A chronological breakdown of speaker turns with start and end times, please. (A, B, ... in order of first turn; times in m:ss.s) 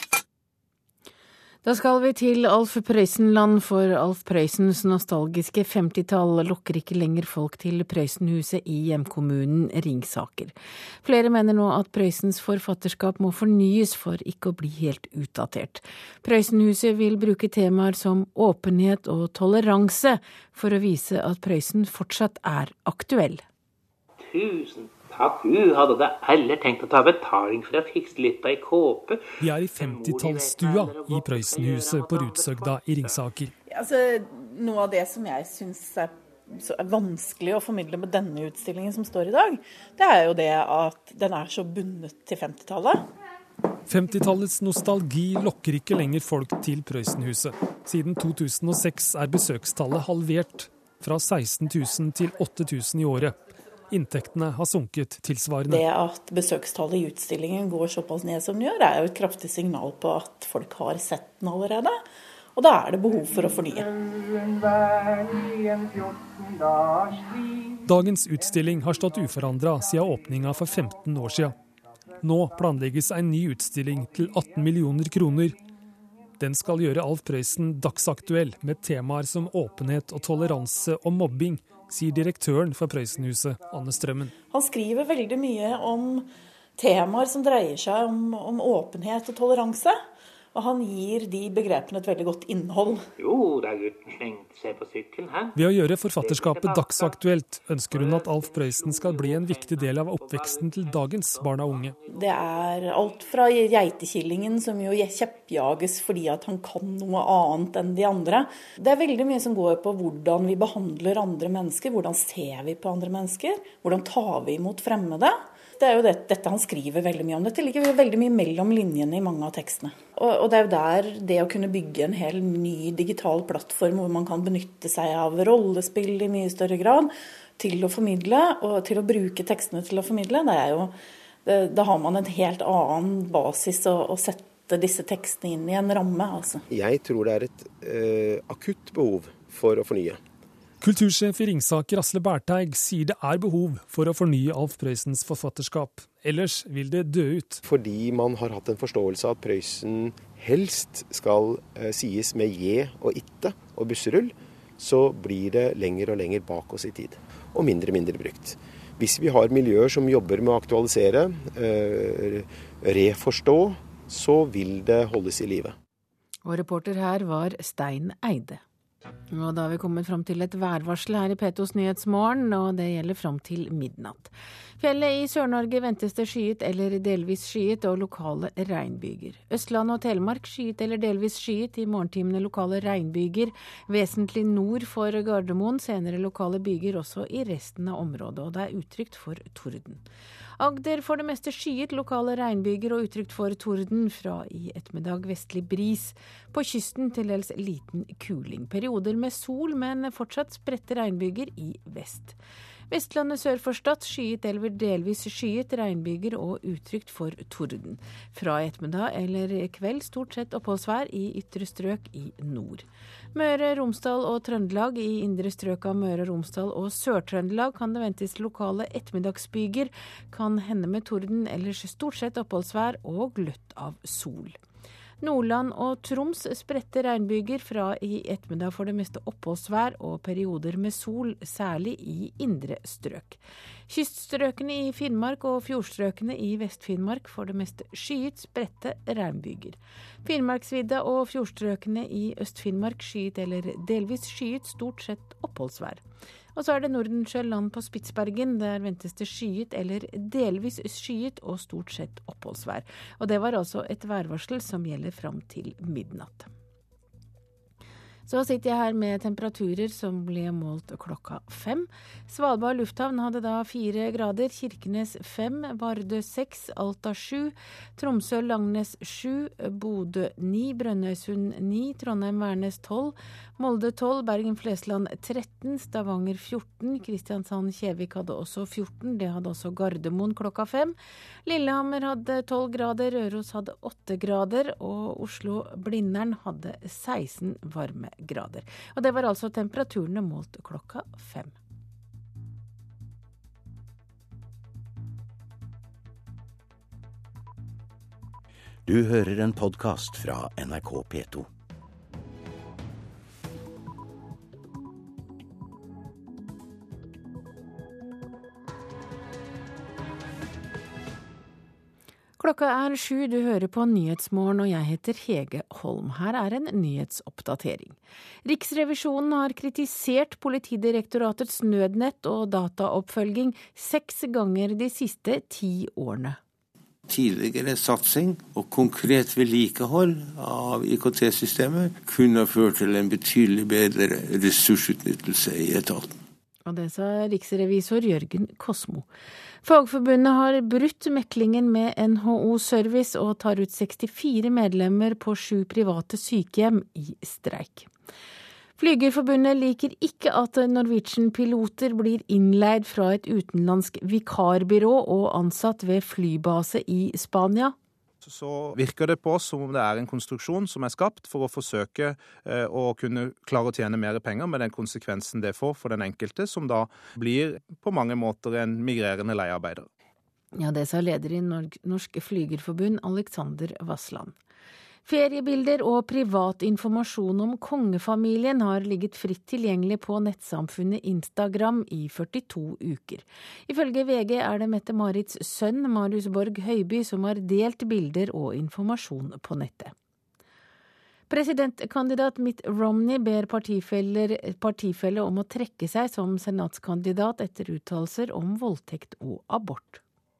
0:01.6-0:23.4 A
0:24.4-0:29.2 B
0:29.4-0:33.5 C
0:29.8-0:33.2 B
0:33.7-0:43.0 D
0:43.9-0:53.4 C
0:53.9-0:55.8 C
0:55.7-1:02.0 D
1:02.6-1:04.0 D
1:07.8-1:11.5 C
1:12.2-1:15.5 C
1:16.4-1:24.3 C
1:24.5-1:30.0 D
1:30.5-1:33.1 D
1:33.2-1:33.8 B
1:35.5-1:42.0 C
1:36.2-1:37.0 B
1:42.1-2:10.9 D
2:11.4-2:16.6 D
2:16.7-2:20.2 E
2:20.8-2:27.6 C
2:27.6-2:45.7 E
2:46.4-2:48.6 A
2:49.3-3:10.0 A
3:10.6-3:22.4 A
3:22.9-3:44.6 A
3:45.2-4:06.0 A
4:06.5-4:16.5 A
4:18.3-4:51.5 A
4:58.8-5:01.5 F
5:12.4-5:26.4 A
5:27.1-5:36.2 G
5:36.6-5:39.1 A
5:39.6-5:47.9 A
5:48.8-5:57.7 A
5:58.2-6:09.9 H
6:10.5-6:14.4 A
6:15.0-6:29.9 A
6:31.3-6:40.0 A